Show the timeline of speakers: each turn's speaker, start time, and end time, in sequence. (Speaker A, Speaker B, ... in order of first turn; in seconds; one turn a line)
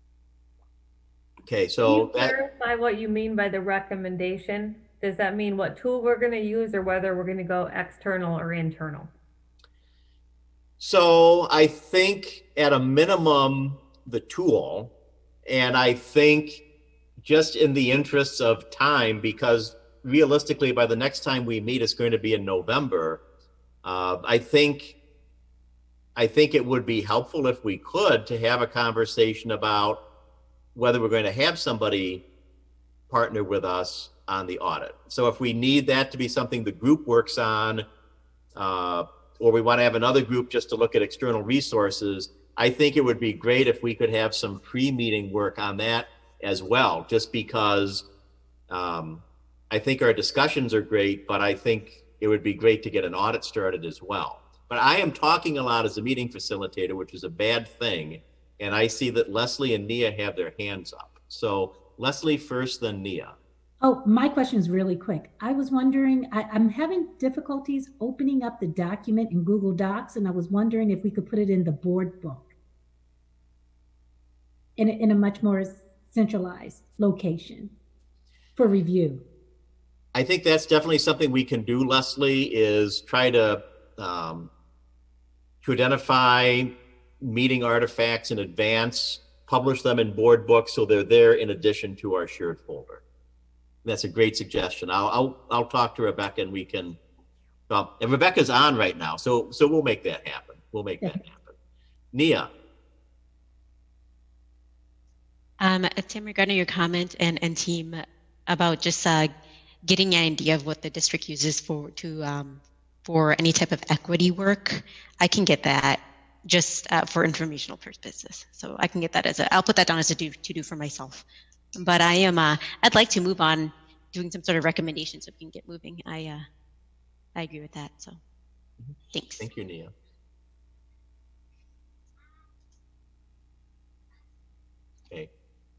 Speaker A: 1.4-2.3
Speaker B: 1.9-9.1
Speaker A: 10.8-14.9
Speaker A: 15.4-16.6
Speaker A: 17.2-23.2
Speaker A: 23.8-24.9
Speaker A: 26.1-30.0
Speaker A: 30.7-32.2
Speaker A: 33.1-37.9
Speaker A: 38.5-48.0
Speaker A: 48.7-63.4
Speaker C: 63.8-72.5
Speaker C: 74.8-77.7
Speaker C: 78.5-79.2
Speaker A: 80.1-84.5
Speaker A: 85.6-93.0
Speaker A: 93.8-97.0
Speaker A: 97.7-101.5
Speaker A: 102.1-102.5
Speaker D: 105.6-109.3
Speaker D: 109.8-121.2
Speaker D: 121.8-126.5
Speaker D: 127.3-128.2
Speaker A: 128.8-129.9
Speaker D: 129.1-129.5